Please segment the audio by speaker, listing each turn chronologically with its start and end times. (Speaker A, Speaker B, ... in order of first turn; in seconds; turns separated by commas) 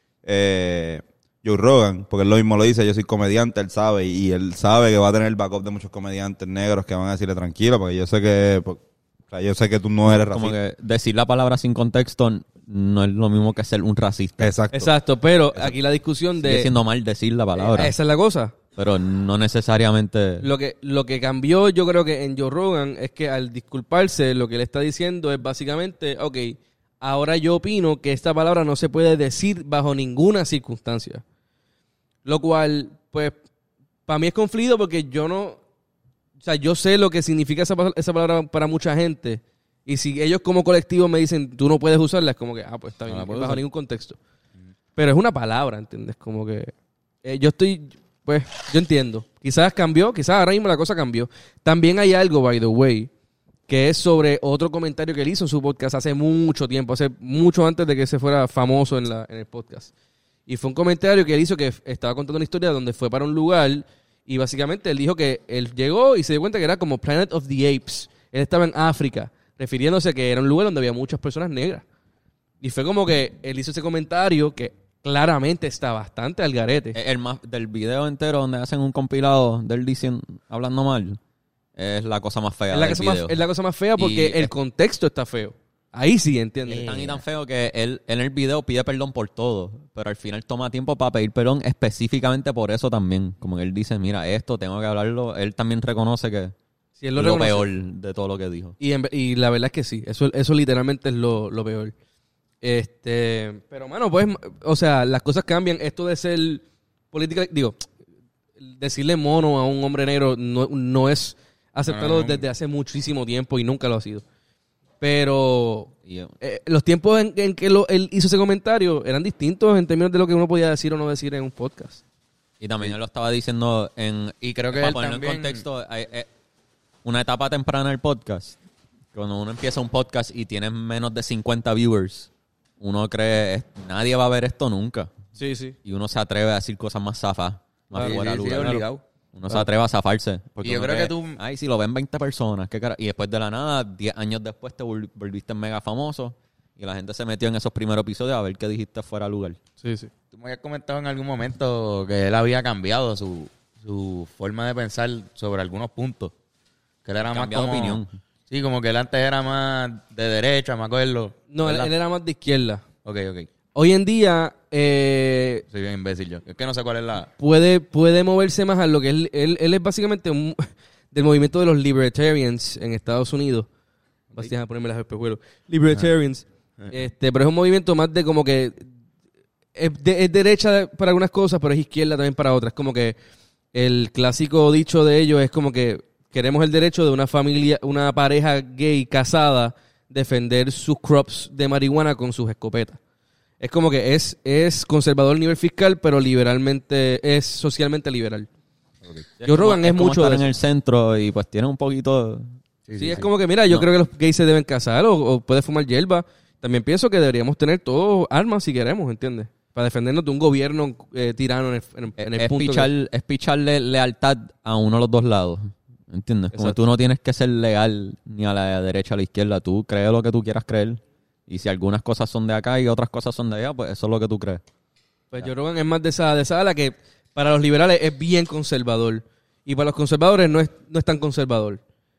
Speaker A: 0.2-10.6, Speaker B: 10.1-14.6, Speaker A: 14.4-14.9, Speaker C: 14.7-16.7, Speaker B: 16.4-17.9, Speaker C: 17.5-18.5, Speaker B: 18.8-20.5, Speaker C: 20.4-31.2, Speaker C: 32.2-33.4, Speaker C: 34.1-35.6, Speaker C: 36.4-44.2, Speaker D: 43.1-43.6, Speaker C: 45.0-46.7, Speaker C: 47.2-53.1, Speaker C: 53.7-59.9, Speaker C: 60.5-71.8, Speaker C: 72.6-77.0, Speaker B: 76.9-81.2, Speaker B: 81.8-83.4, Speaker C: 82.7-87.0, Speaker B: 84.0-84.5, Speaker D: 86.7-87.2, Speaker B: 86.8-96.5, Speaker C: 97.0-97.7, Speaker B: 97.2-98.8, Speaker C: 98.8-101.9, Speaker C: 102.6-107.9, Speaker C: 108.6-114.2, Speaker D: 111.8-112.4, Speaker C: 115.0-122.0, Speaker B: 116.0-116.3, Speaker B: 122.6-126.3, Speaker D: 124.4-125.6, Speaker B: 127.0-128.6, Speaker B: 129.1-135.1, Speaker C: 135.3-135.8, Speaker B: 135.8-149.6, Speaker C: 137.9-138.2, Speaker D: 137.9-139.0, Speaker D: 140.6-141.4, Speaker C: 149.8-150.1, Speaker D: 150.3-156.3, Speaker D: 157.0-161.9, Speaker B: 157.3-158.2, Speaker C: 161.5-162.8, Speaker D: 163.0-163.5, Speaker C: 163.7-165.6, Speaker D: 165.7-167.3, Speaker C: 167.4-173.7, Speaker C: 174.3-178.9, Speaker C: 179.7-183.2, Speaker C: 183.7-193.0, Speaker C: 193.6-198.5, Speaker B: 199.4-202.5, Speaker C: 199.4-200.5, Speaker D: 202.9-203.3, Speaker C: 202.9-212.9, Speaker B: 212.2-224.6, Speaker C: 216.5-216.8, Speaker C: 225.3-231.8